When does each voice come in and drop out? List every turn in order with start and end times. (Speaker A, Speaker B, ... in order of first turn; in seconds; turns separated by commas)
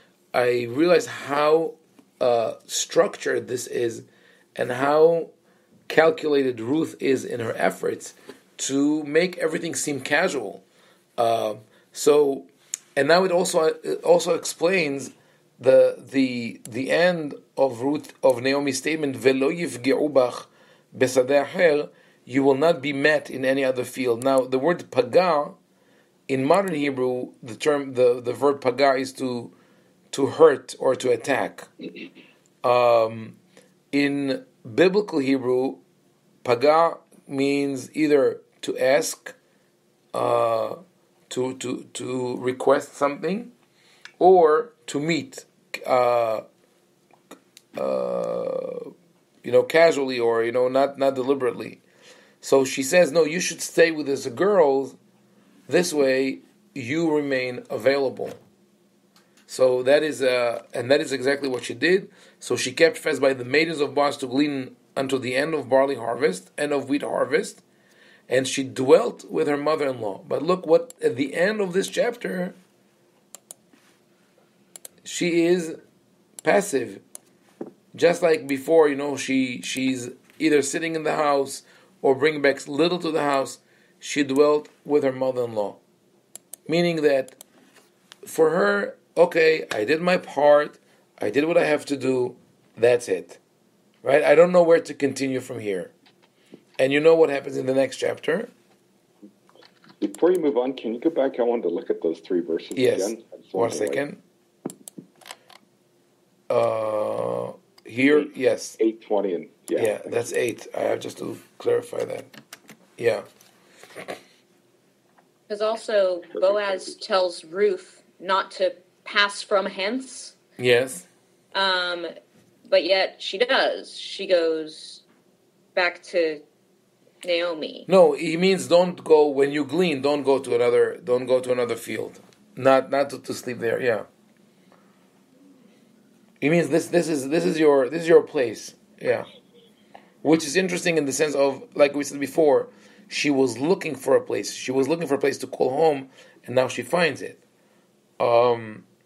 Speaker A: 0.3-5.3, Speaker A: 5.9-10.6, Speaker A: 11.2-25.6, Speaker A: 26.3-29.5, Speaker A: 30.1-31.7, Speaker A: 32.6-33.4, Speaker A: 33.9-35.8, Speaker A: 36.4-39.4, Speaker A: 40.1-40.8, Speaker A: 41.3-43.5, Speaker A: 44.2-46.4, Speaker A: 47.8-48.9, Speaker A: 49.4-51.8, Speaker A: 52.4-55.0, Speaker A: 55.7-58.4, Speaker A: 59.5-67.6, Speaker A: 68.3-72.5, Speaker A: 75.0-75.8, Speaker A: 76.4-77.0, Speaker A: 77.9-85.8, Speaker A: 86.7-87.4, Speaker A: 88.2-93.4, Speaker A: 94.0-95.9, Speaker A: 96.8-98.5, Speaker B: 100.0-104.0, Speaker A: 102.7-104.2, Speaker A: 106.5-108.8, Speaker B: 108.8-110.2, Speaker A: 109.8-112.3, Speaker A: 113.0-113.2, Speaker C: 115.5-120.3, Speaker A: 120.6-121.1, Speaker C: 121.5-122.1, Speaker C: 122.7-125.0, Speaker C: 125.7-126.4, Speaker C: 127.2-127.9, Speaker A: 127.9-134.1, Speaker A: 136.4-139.3, Speaker A: 140.2-147.4, Speaker A: 148.2-148.8